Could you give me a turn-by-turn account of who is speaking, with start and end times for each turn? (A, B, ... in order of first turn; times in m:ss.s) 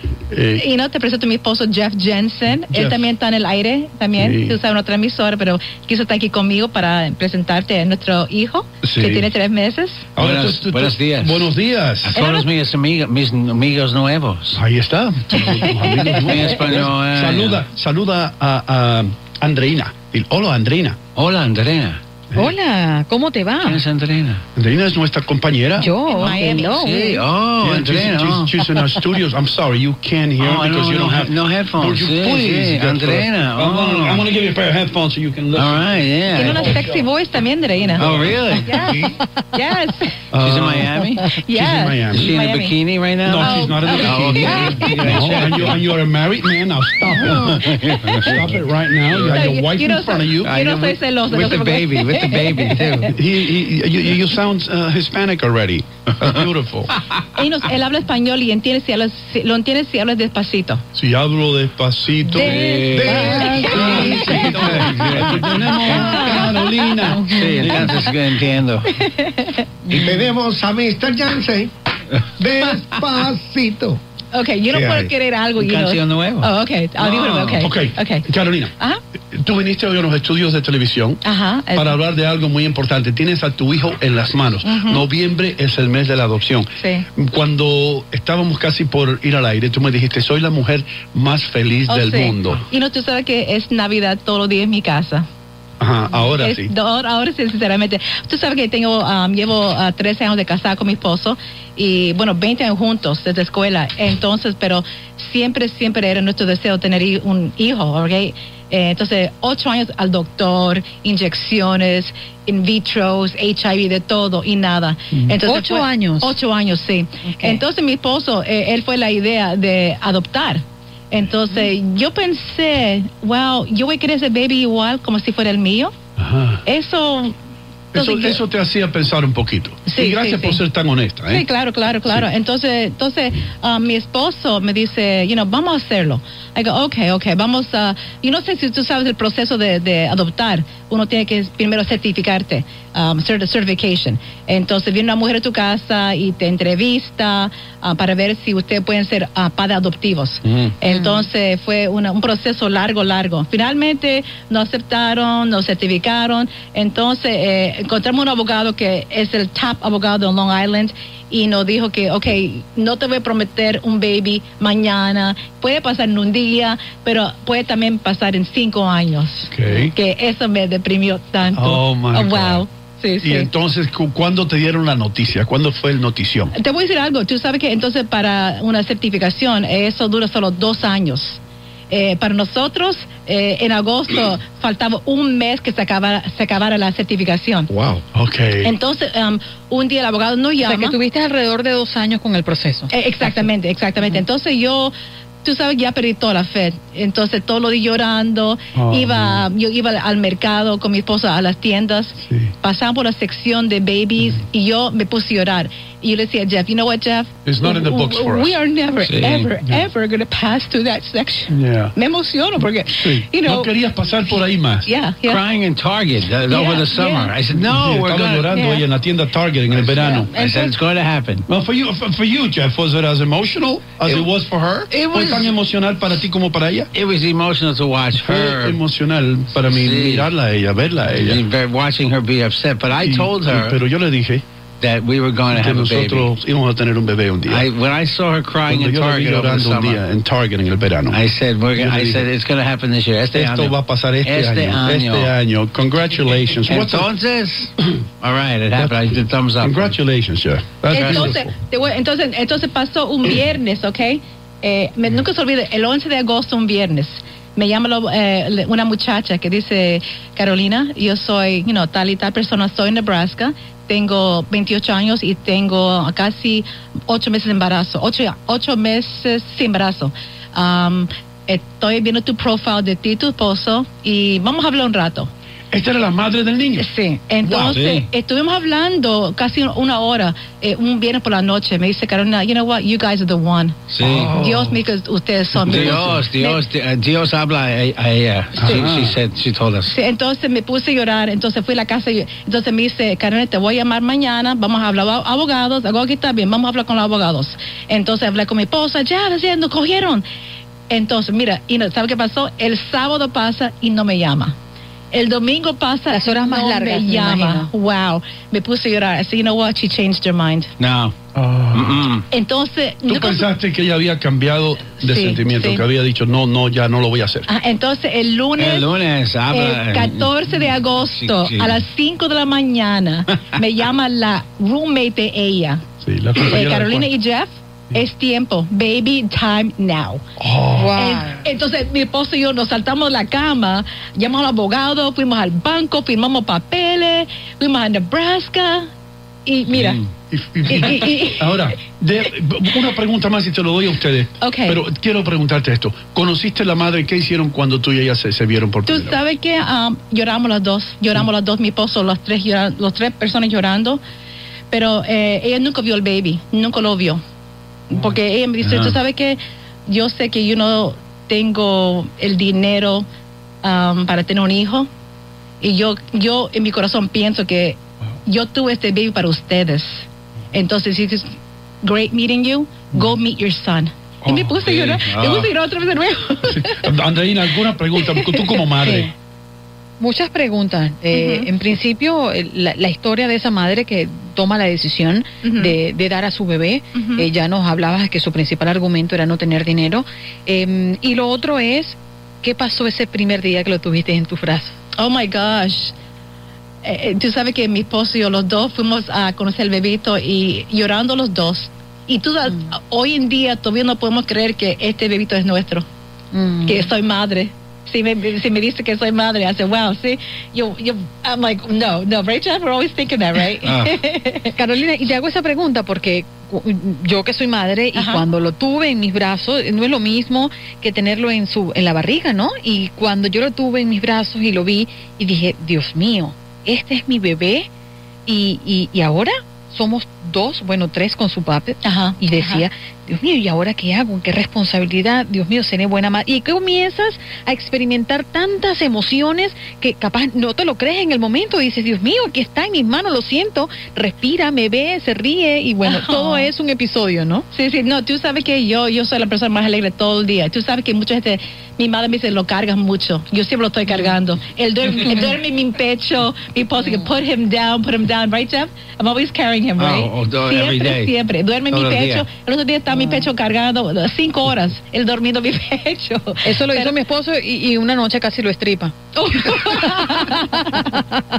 0:00.3-0:00.6 A
0:00.6-0:10.0 B
0:02.7-0:03.1 A
0:04.2-0:04.6 A
0:08.8-0:09.3 A
0:10.2-0:12.2 A
0:10.2-0:11.5 C
0:12.0-0:14.6 C
0:12.2-0:12.5 B
0:14.5-0:21.0 A
0:15.8-0:17.6 C
0:21.1-0:22.0 C
0:22.3-0:23.8 D
0:23.6-0:24.4 C
0:24.6-0:25.9 A
0:25.8-0:27.2 D
0:26.1-0:26.8 B
0:26.2-0:28.8 C
0:27.6-0:37.0 A
0:30.4-0:34.3 C
0:35.5-0:36.6 C
0:36.3-0:38.1 B
0:38.0-0:39.1 A
0:38.0-0:38.8 C
0:38.6-0:40.2 B
0:40.3-0:41.0 A
0:40.4-0:41.3 C
0:41.2-0:42.7 B
0:41.5-0:42.3 A
0:42.1-0:45.8 C
0:43.2-0:50.5 A
0:43.4-0:45.2 B
0:47.3-0:48.5 C
0:49.1-0:49.4 C
0:49.3-0:52.8 B
0:50.4-0:53.2 C
0:53.1-0:56.9 A
0:57.3-1:00.8 B
1:00.9-1:02.5 A
1:02.3-1:06.6 C
1:02.4-1:04.9 E
1:02.4-1:04.6 B
1:03.1-1:03.5 D
1:03.6-1:08.1 A
1:05.8-1:07.4 B
1:07.3-1:09.0 C
1:08.9-1:09.7 B
1:09.9-1:11.7 E
1:12.2-1:14.0 E
1:14.3-1:18.3 B
1:14.7-1:15.1 E
1:15.6-1:17.7 C
1:17.6-1:18.7 A
1:19.3-1:21.2 A
1:21.2-1:22.0 B
1:21.8-1:32.6 A
1:24.6-1:25.0 B
1:26.8-1:27.0 B
1:31.9-1:35.3 B
1:35.8-1:36.7 A
1:36.2-2:05.9 B
1:55.4-1:56.4 D
1:57.2-1:57.6 D
2:06.2-2:06.6 A
2:06.6-2:07.3 B
2:07.9-2:08.4 B
2:07.9-2:11.4 A
2:09.9-2:10.6 B
2:11.3-2:53.5 B
2:30.8-2:31.3 D
2:49.5-2:49.9 A
2:51.6-2:52.6 A
2:53.2-2:56.5 A
2:56.5-3:07.7 B
3:07.7-3:08.0 E
3:08.1-3:08.7 A
3:08.6-3:11.0 B
3:10.6-3:13.4 D
3:12.9-3:33.7 B
3:18.8-3:19.4 A
3:22.2-3:22.5 A
3:27.4-3:28.6 A
3:29.0-3:29.5 C
3:31.5-3:31.9 A
3:32.9-3:34.9 A
3:34.8-3:35.4 B
3:35.2-3:38.6 C
3:36.5-3:37.3 B
3:37.5-3:40.3 A
3:38.5-3:38.8 B
3:40.0-3:40.7 B
3:40.1-3:41.4 C
3:41.5-3:46.9 A
3:44.9-3:45.5 C
3:46.9-3:48.8 C
3:48.2-3:51.4 A
3:49.6-3:50.3 C
3:51.1-3:53.8 C
3:53.0-3:54.4 A
3:54.8-3:56.3 C
3:55.5-3:57.7 A
3:57.5-4:00.0 C
3:58.6-4:01.2 A
4:01.1-4:05.3 C
4:01.8-4:02.3 A
4:03.3-4:07.0 A
4:06.6-4:10.0 C
4:09.6-4:11.5 A
4:10.9-4:35.3 B
4:10.9-4:11.3 C
4:35.7-4:36.8 A
4:36.8-4:43.8 B
4:37.4-4:37.8 A
4:37.7-4:38.1 C
4:43.9-4:44.4 C
4:44.0-4:44.8 A
4:44.3-4:46.6 B
4:45.6-4:46.2 A
4:45.7-4:49.9 C
4:48.6-4:49.2 A
4:49.8-5:00.2 B
5:00.9-5:04.6 B
5:05.1-5:10.7 B
5:06.1-5:07.7 D
5:10.8-5:11.1 C
5:11.3-5:12.1 A
5:11.7-5:12.2 C
5:12.3-5:13.5 B
5:13.0-5:17.4 A
5:15.0-5:15.8 B
5:17.5-5:18.9 B
5:18.6-5:21.8 C
5:19.5-5:25.8 B
5:26.0-5:27.1 A
5:26.4-5:30.2 B
5:30.4-5:30.9 A
5:30.7-5:31.4 D
5:30.9-5:38.9 B
5:39.4-5:40.0 B
5:39.7-5:40.1 C
5:40.3-5:49.2 A
5:40.7-5:41.6 B
5:44.4-5:44.8 B
5:48.9-5:54.0 B
5:54.7-5:57.2 B
5:57.9-6:03.0 B
5:58.6-5:59.0 C
6:03.6-6:04.9 B
6:05.6-6:16.8 B
6:14.6-6:15.5 C
6:16.4-6:19.1 A
6:18.0-6:19.0 B
6:20.0-6:34.8 D
6:21.1-6:21.5 B
6:25.4-6:25.7 B
6:26.9-6:27.2 B
6:35.0-6:35.9 B
6:36.8-6:45.8 B
6:46.3-6:46.9 D
6:46.6-6:54.5 B
6:53.6-6:54.0 C
6:54.5-7:07.7 D
6:57.9-6:58.2 B
7:08.2-7:27.4 D
7:11.8-7:12.6 B
7:25.8-7:26.5 B
7:27.5-7:47.0 B
7:33.9-7:34.1 D
7:39.8-7:41.1 C
7:41.7-7:42.3 C
7:46.4-7:48.9 D
7:49.1-7:50.9 B
7:49.4-7:51.1 D